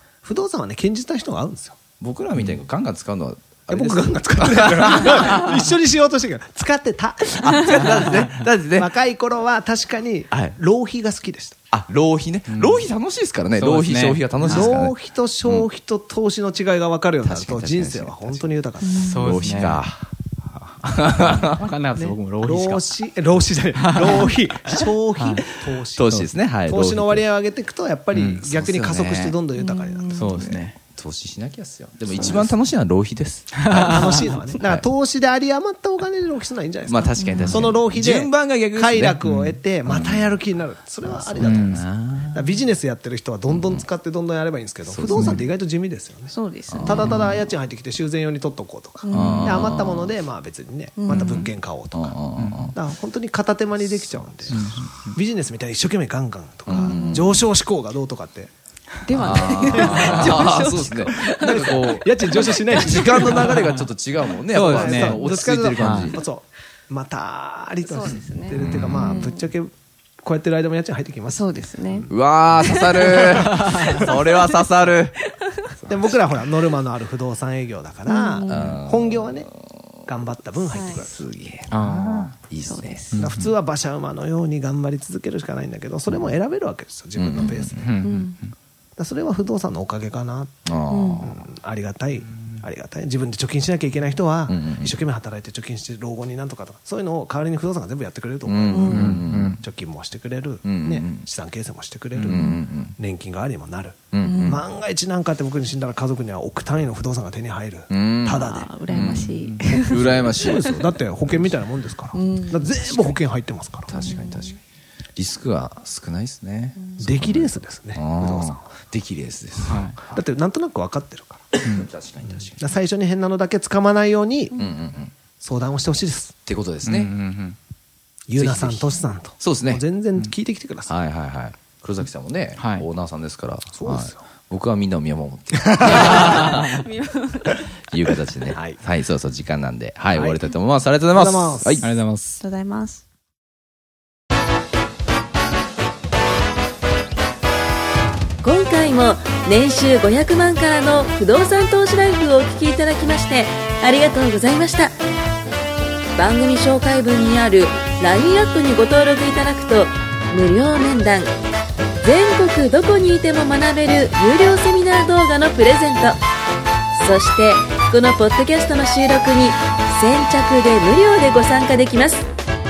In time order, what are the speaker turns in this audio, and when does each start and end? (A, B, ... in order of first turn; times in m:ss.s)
0:00.2-0:01.8 A
0:02.0-0:05.6 B
0:03.7-0:11.6 A
0:07.4-0:08.9 B
0:10.3-0:10.6 B
0:11.7-0:15.7 B
0:12.5-0:12.9 C
0:13.5-0:14.7 C
0:14.4-0:19.6 A
0:17.2-0:20.0 B
0:18.8-0:19.2 D
0:19.0-0:19.8 C
0:20.6-0:21.5 B
0:21.2-0:22.8 C
0:22.0-0:30.5 A
0:23.8-0:24.2 C
0:25.2-0:25.4 C
0:26.0-0:27.2 B
0:28.1-0:28.4 C
0:28.4-0:29.4 B
0:29.6-0:30.5 D
0:30.1-0:30.8 C
0:30.4-0:34.8 B
0:32.1-0:32.6 A
0:33.6-0:34.3 C
0:33.7-0:46.3 A
0:36.9-0:40.4 B
0:37.2-0:37.6 D
0:41.0-0:42.5 B
0:41.4-0:41.8 C
0:43.5-0:43.8 B
0:44.8-0:45.4 B
0:46.3-0:47.2 D
0:46.7-0:47.4 B
0:46.8-0:52.2 A
0:49.0-0:49.8 D
0:49.1-0:50.1 B
0:51.0-0:51.5 D
0:51.1-0:52.7 B
0:52.4-0:52.7 C
0:52.7-0:58.5 A
0:54.5-0:55.2 C
0:56.7-0:57.3 B
0:56.7-0:57.3 D
0:59.0-1:03.7 D
0:59.1-1:06.2 B
0:59.2-1:00.3 C
0:59.6-1:03.7 A
1:04.5-1:05.2 C
1:04.6-1:09.7 A
1:05.8-1:06.2 C
1:07.8-1:09.4 D
1:08.6-1:09.4 B
1:10.2-1:12.1 A
1:11.3-1:14.7 D
1:12.1-1:15.2 B
1:13.1-1:13.8 A
1:15.2-1:15.7 D
1:15.8-1:16.1 B
1:15.8-1:19.5 A
1:18.1-1:18.8 D
1:18.4-1:19.4 B
1:20.0-1:21.3 A
1:20.7-1:21.0 D
1:20.9-1:23.0 B
1:21.7-1:22.3 C
1:22.6-1:23.2 D
1:23.1-1:23.5 C
1:23.1-1:27.8 A
1:27.2-1:27.9 B
1:27.8-1:28.5 C
1:28.0-1:28.4 D
1:29.0-1:30.7 A
1:30.6-1:31.4 B
1:30.9-1:31.2 D
1:31.2-1:48.7 A
1:34.5-1:34.9 B
1:38.4-1:39.6 B
1:38.7-1:39.1 D
1:38.9-1:39.6 C
1:40.6-1:41.2 B
1:42.2-1:42.9 B
1:42.3-1:42.6 D
1:44.1-1:44.6 B
1:44.2-1:44.6 D
1:47.9-1:51.5 B
1:48.3-1:50.8 D
1:48.9-1:49.7 C
1:50.0-1:54.0 A
1:52.1-1:52.9 D
1:53.9-1:54.6 B
1:53.9-1:54.5 D
1:55.2-2:00.2 B
1:57.0-1:58.6 A
1:59.6-2:00.0 C
2:00.1-2:01.6 A
2:01.6-2:02.6 B
2:02.5-2:04.7 A
2:04.5-2:05.1 B
2:05.4-2:06.3 A
2:06.4-2:07.1 B
2:06.8-2:07.6 C
2:08.3-2:10.9 A
2:08.3-2:09.8 B
2:10.9-2:16.8 B
2:12.6-2:12.9 C
2:13.7-2:14.2 A
2:15.6-2:16.4 A
2:15.9-2:17.7 D
2:17.8-2:21.8 B
2:18.5-2:18.8 A
2:20.1-2:20.4 A
2:21.1-2:21.8 A
2:21.8-2:22.4 C
2:22.4-2:23.0 D
2:28.4-2:34.9 E
2:36.2-2:41.2 E
2:42.0-2:46.1 E
2:47.0-2:52.2 E